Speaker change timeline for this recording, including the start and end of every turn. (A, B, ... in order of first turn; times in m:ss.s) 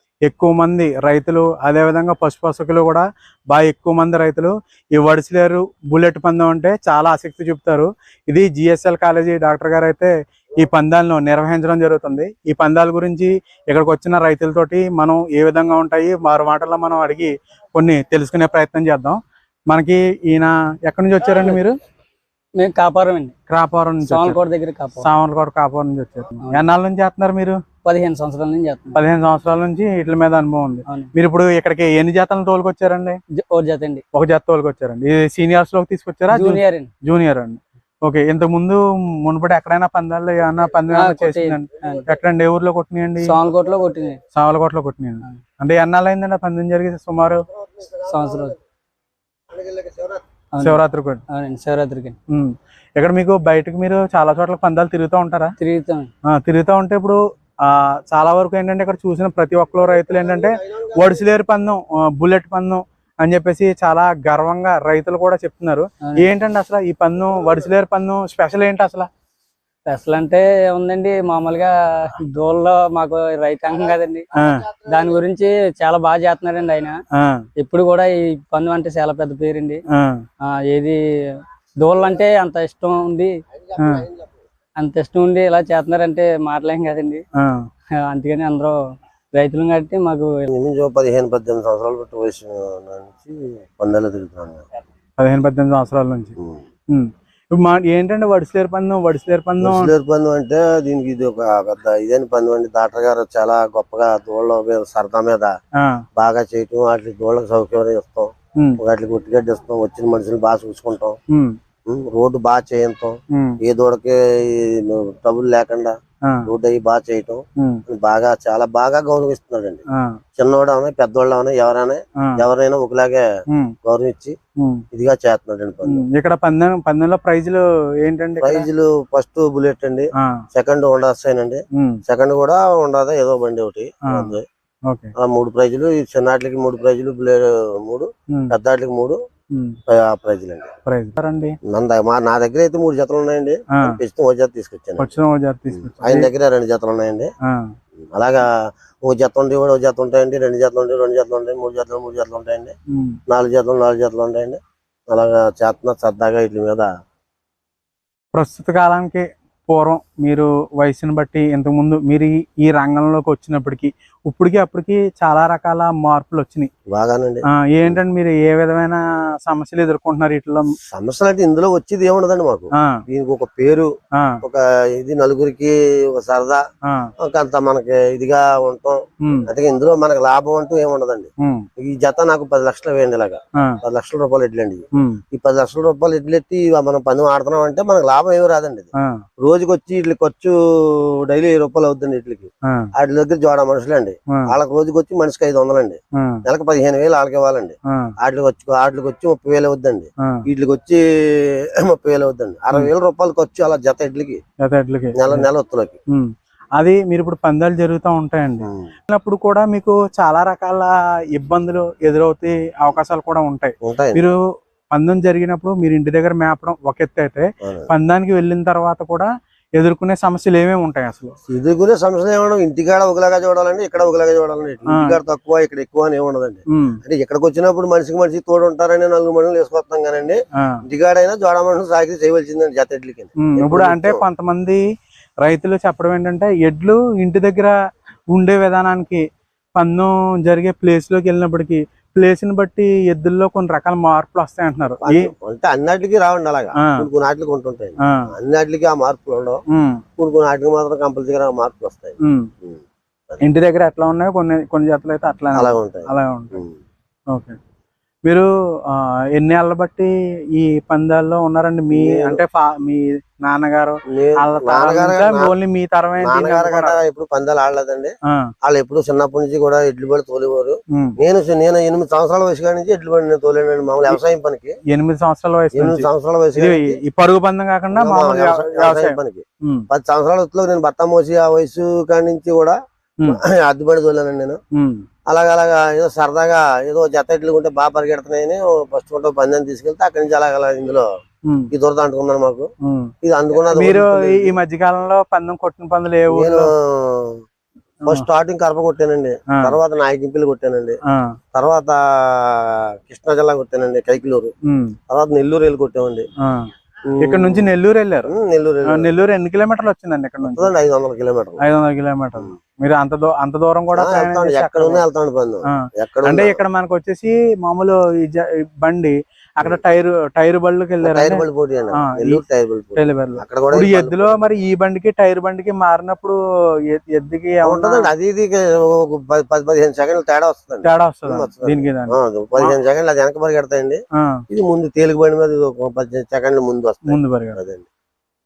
0:00.2-0:21.8 A
0:22.6-0:23.3 B
0:23.5-0:24.4 A
0:24.0-0:25.1 B
0:25.0-0:27.6 A
0:27.8-0:29.0 B
0:28.9-0:33.2 A
0:33.4-0:34.0 B
0:34.1-0:43.4 A
0:36.3-0:36.9 B
0:40.9-0:42.1 B
0:41.9-0:42.2 C
0:43.2-0:44.2 B
0:44.3-0:47.4 A
0:47.7-0:48.6 C
0:48.1-0:48.5 B
0:49.5-0:50.2 C
0:50.5-0:52.2 B
0:50.6-0:51.2 A
0:52.3-0:55.6 A
0:55.6-0:56.1 B
0:56.3-1:09.1 A
0:59.8-1:01.3 C
1:09.9-1:14.3 B
1:14.3-1:14.6 A
1:14.8-1:17.0 B
1:17.1-1:17.5 A
1:17.6-1:19.8 B
1:19.9-1:20.2 A
1:20.4-1:23.3 B
1:23.7-1:24.3 C
1:23.8-1:24.1 A
1:24.8-1:27.2 B
1:27.3-1:27.6 A
1:28.0-1:28.8 B
1:29.3-1:30.5 B
1:30.5-1:34.6 C
1:35.2-1:36.3 A
1:36.9-1:39.9 A
1:39.6-1:45.5 C
1:45.8-1:46.0 A
1:46.2-1:51.2 C
1:51.3-1:51.6 A
1:51.9-1:55.9 C
1:53.3-1:53.6 A
1:56.4-1:59.8 C
1:57.6-1:57.8 A
1:59.9-2:00.2 A
2:00.4-2:03.2 C
2:03.5-2:03.7 A
2:03.8-2:04.4 C
2:04.6-2:04.8 A
2:04.9-2:06.0 C
2:05.8-2:08.6 A
2:08.4-2:14.4 C
2:10.2-2:10.4 A
2:11.7-2:12.0 A
2:14.0-2:14.3 A
2:15.2-2:19.2 C
2:19.9-2:20.7 C
2:20.8-2:21.6 A
2:21.7-2:25.1 C
2:23.7-2:24.0 A
2:25.0-2:26.3 A
2:25.7-2:27.3 C
2:27.4-2:27.7 A
2:28.1-2:28.4 C
2:29.0-2:32.7 C
2:32.9-2:33.2 A
2:33.3-2:34.6 C
2:35.1-2:36.9 C
2:38.3-2:46.7 A
2:46.9-2:48.0 C
2:47.5-2:50.7 A
2:50.9-2:53.9 C
2:52.8-2:53.0 A
2:54.1-2:54.4 A
2:54.4-2:56.6 C
2:57.2-3:08.9 C
3:04.9-3:05.2 A
3:09.4-3:24.4 C
3:12.6-3:12.9 A
3:16.2-3:16.4 A
3:24.6-3:25.4 A
3:25.2-3:26.0 C
3:26.1-3:34.4 A
3:28.6-3:28.9 C
3:33.8-3:34.2 C
3:34.9-3:41.4 A
3:37.6-3:37.9 C
3:41.5-3:54.2 C
3:44.9-3:45.2 A
3:46.7-3:47.0 A
3:53.4-3:54.8 A
3:55.4-3:57.7 A
3:58.3-3:59.2 A
3:59.7-4:05.3 A
4:05.0-4:09.6 C
4:06.8-4:07.0 A
4:08.0-4:08.3 A
4:09.7-4:10.0 A
4:10.2-4:13.4 C
4:12.2-4:12.5 A
4:13.4-4:16.6 A
4:15.5-4:16.8 C
4:17.3-4:17.6 A
4:18.2-4:27.0 A
4:21.9-4:22.4 C
4:24.1-4:25.5 C
4:26.2-4:34.8 C
4:34.9-4:39.8 A
4:35.7-4:37.0 C
4:37.9-4:44.6 C
4:44.7-4:45.0 A
4:45.3-4:51.0 C
4:51.7-4:52.7 C
4:52.8-4:53.1 A
4:53.2-4:54.6 C
4:53.7-4:56.7 A
4:56.3-4:57.4 C
4:58.0-5:01.0 C
5:01.0-5:01.3 A
5:01.5-5:04.5 C
5:04.6-5:05.0 A
5:05.1-5:06.3 C
5:06.4-5:06.7 A
5:07.0-5:07.7 C
5:07.2-5:08.3 A
5:08.3-5:09.1 C
5:08.9-5:10.7 A
5:10.4-5:11.6 C
5:11.6-5:15.0 A
5:13.9-5:16.6 C
5:15.7-5:21.4 A
5:21.0-5:24.4 C
5:22.0-5:22.4 A
5:23.0-5:26.4 A
5:26.9-5:28.1 A
5:27.6-5:37.8 C
5:30.8-5:32.8 A
5:34.2-5:34.4 A
5:37.0-5:37.6 A